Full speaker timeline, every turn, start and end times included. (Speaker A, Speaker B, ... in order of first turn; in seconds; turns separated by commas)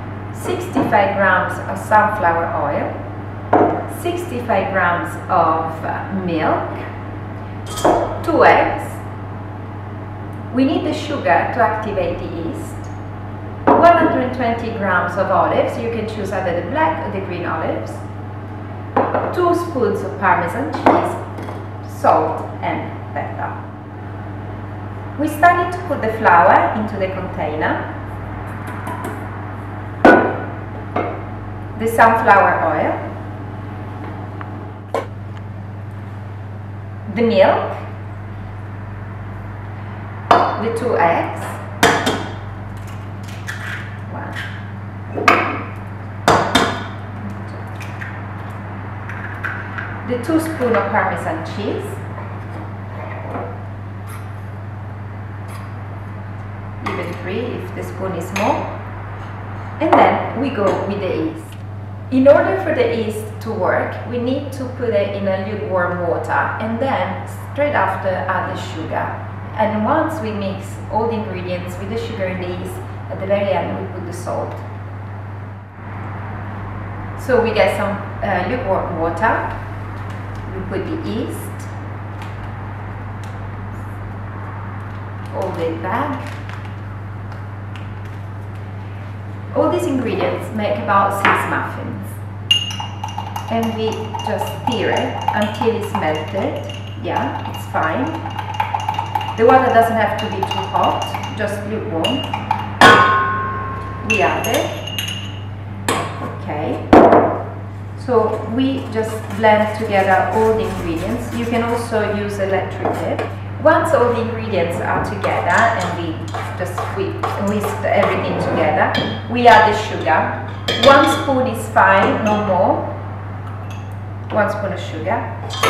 Speaker A: 0.3-2.9, Speaker A: 3.9-6.9, Speaker A: 8.2-9.0, Speaker A: 10.5-12.9, Speaker A: 13.7-18.0, Speaker A: 19.3-21.2, Speaker A: 21.8-23.6, Speaker A: 25.1-27.8, Speaker A: 31.7-33.0, Speaker A: 37.0-37.8, Speaker A: 40.5-41.6, Speaker A: 44.1-44.4, Speaker A: 47.3-47.7, Speaker A: 50.0-52.0, Speaker A: 56.8-58.7, Speaker A: 59.8-61.6, Speaker A: 62.1-74.6, Speaker A: 77.2-79.5, Speaker A: 80.5-81.7, Speaker A: 85.3-86.3, Speaker A: 89.5-92.2, Speaker A: 93.5-98.2, Speaker A: 99.3-102.3, Speaker A: 104.0-104.8, Speaker A: 106.2-106.9, Speaker A: 108.0-122.9, Speaker A: 124.3-125.3